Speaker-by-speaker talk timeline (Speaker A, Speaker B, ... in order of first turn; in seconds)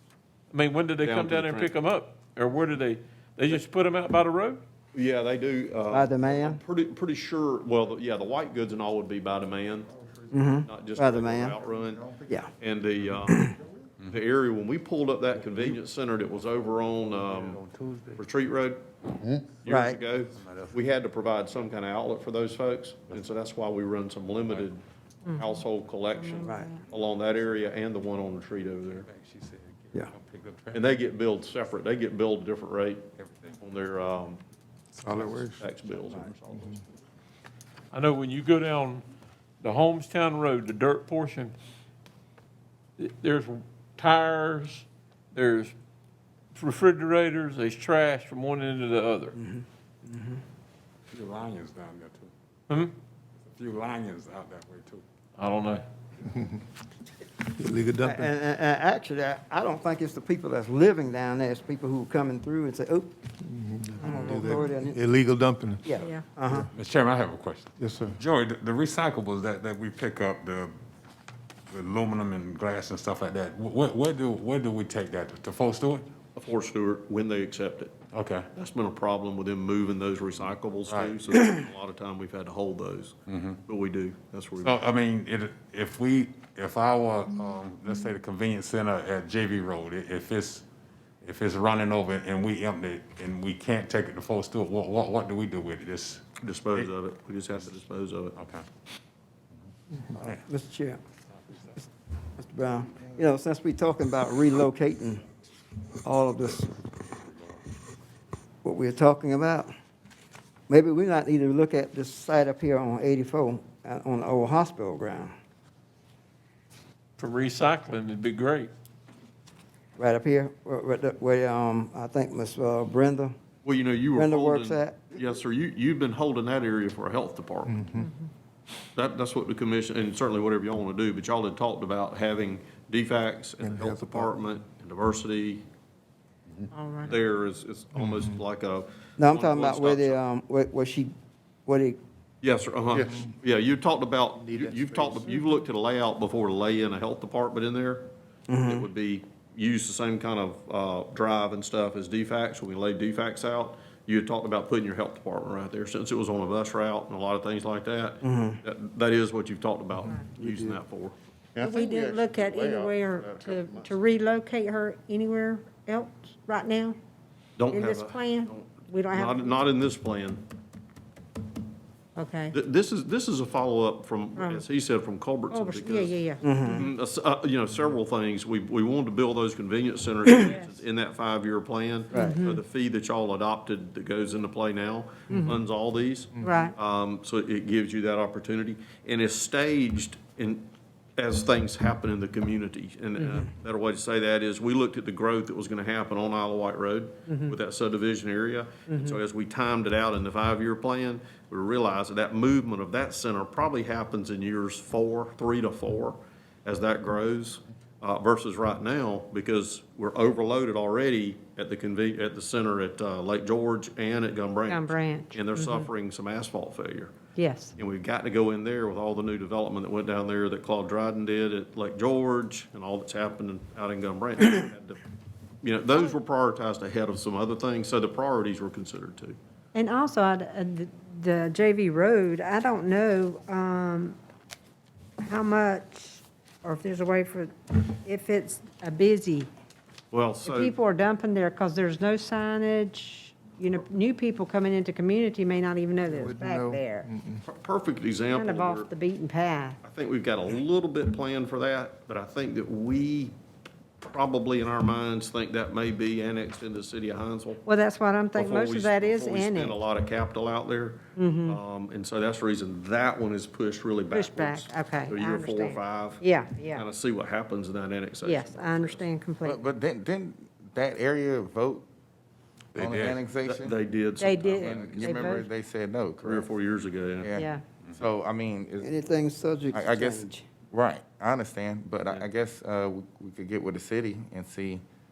Speaker A: 0.5-4.6, 37.9-39.0, 39.6-41.5, 43.0-45.7, 46.5-49.4, 52.7-52.9, 55.4-55.8, 117.2-118.7
Speaker B: 1.0-1.7, 4.9-9.9, 10.6-13.5, 14.1-17.6, 18.2-18.8, 19.6-24.8, 25.3-29.1, 30.7-33.0, 33.6-34.4, 35.0-36.8, 76.3-77.9, 78.5-84.8, 96.4-98.3, 123.6-127.9, 128.9-135.6, 137.0-140.2, 142.4-148.1, 148.6-161.1, 167.6-170.4, 172.5-190.7, 191.2-217.1, 217.8-225.0, 225.6-229.3, 240.1-240.7, 247.4-248.9, 249.8-253.3, 254.0-257.6, 258.3-269.0, 273.4-275.4, 276.2-277.4
Speaker C: 5.9-6.6, 10.3-11.6, 13.3-13.6, 19.6-20.0, 26.4-26.7, 49.4-50.4, 57.9-63.1, 64.0-65.0, 65.8-66.7, 100.1-101.0, 102.4-105.2, 106.0-106.7, 108.6-109.7, 110.7-115.3, 120.0-123.3, 124.1-125.1, 139.2-141.1, 141.7-142.0, 148.5-148.9, 158.2-158.6, 176.4-176.9, 182.1-182.4, 278.8-280.4
Speaker D: 17.5-18.1, 20.3-20.8, 26.9-27.6, 28.9-30.9, 33.2-33.6, 51.1-52.3, 53.4-55.0, 66.7-70.7, 71.7-76.1, 78.1-78.5, 80.9-81.3, 83.3-83.6, 84.6-90.6, 91.2-96.9, 98.3-98.6, 272.7-273.2
Speaker E: 25.2-25.6, 26.1-26.9, 64.0-64.7, 66.0-66.3, 128.0-128.3, 136.7-137.2, 161.6-166.9, 167.7-169.7, 172.2-172.6, 174.3-174.7, 175.5-176.5, 180.4-180.8, 182.2-182.6, 185.3-185.6, 186.4-186.7, 197.3-197.6, 198.9-199.2, 214.7-215.9, 217.3-217.7, 229.7-234.2, 235.2-239.5, 240.4-247.1, 248.3-249.8, 257.6-259.8, 261.1-261.6, 264.1-266.9, 268.2-269.6, 274.2-275.5, 277.3-277.6
Speaker F: 35.0-35.6, 57.5-58.3, 63.5-65.9, 67.8-68.2, 127.7-128.1, 133.6-134.2, 137.9-138.3, 143.0-143.3, 160.1-160.6, 246.1-247.4
Speaker G: 161.6-163.9, 269.4-271.9, 272.7-273.7, 274.6-276.5, 277.2-279.0, 279.7-284.8